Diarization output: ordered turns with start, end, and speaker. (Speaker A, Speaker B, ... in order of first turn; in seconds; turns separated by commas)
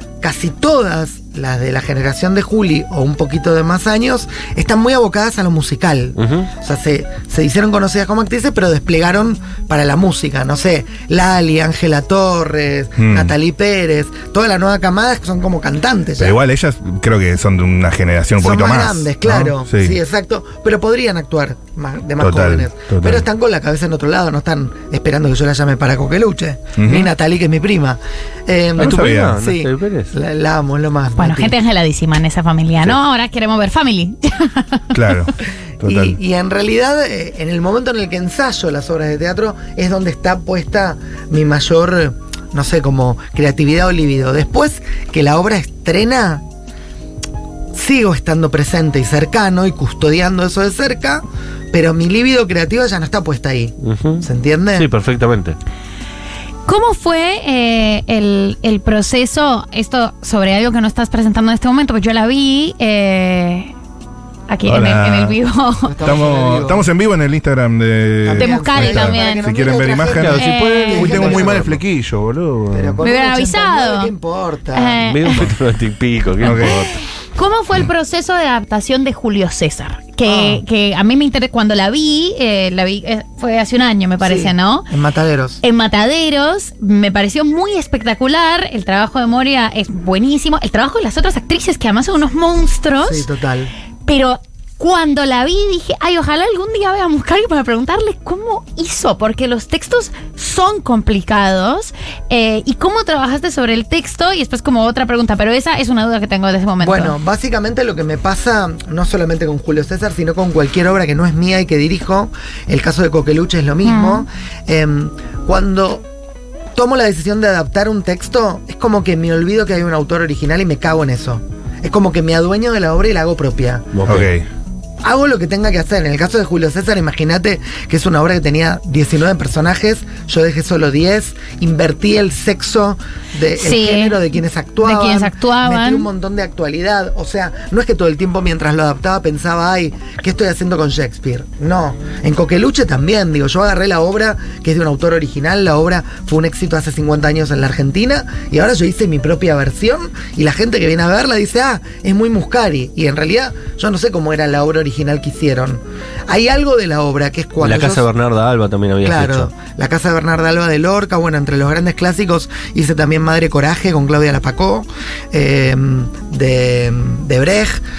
Speaker A: 0.2-16.4, Speaker B: 6.2-6.5, Speaker C: 13.0-13.3, Speaker C: 16.2-20.0, Speaker A: 18.4-31.6, Speaker C: 22.2-23.3, Speaker C: 26.8-27.1, Speaker C: 28.8-29.4, Speaker B: 28.8-30.1, Speaker D: 31.2-35.3, Speaker C: 34.9-36.2, Speaker A: 35.8-46.4, Speaker A: 47.7-54.9, Speaker B: 53.8-55.6, Speaker D: 56.7-63.7, Speaker D: 64.5-66.0, Speaker C: 64.7-65.4, Speaker A: 65.8-66.9, Speaker C: 66.0-73.0, Speaker A: 68.2-71.8, Speaker D: 68.4-69.5, Speaker B: 70.1-71.8, Speaker D: 70.3-71.2, Speaker A: 72.7-75.0, Speaker D: 73.0-74.1, Speaker D: 74.7-75.5, Speaker B: 75.0-77.0, Speaker C: 76.4-76.9, Speaker D: 76.4-84.9, Speaker A: 80.3-80.6, Speaker A: 84.2-85.6, Speaker D: 85.6-93.3, Speaker A: 93.0-93.7, Speaker D: 94.1-107.2, Speaker A: 106.8-116.0, Speaker D: 113.8-114.3, Speaker A: 116.8-123.9, Speaker B: 123.9-124.3, Speaker C: 124.1-124.5, Speaker A: 125.0-158.1, Speaker D: 133.6-134.2, Speaker D: 134.8-136.1, Speaker B: 157.6-159.5, Speaker A: 159.0-167.8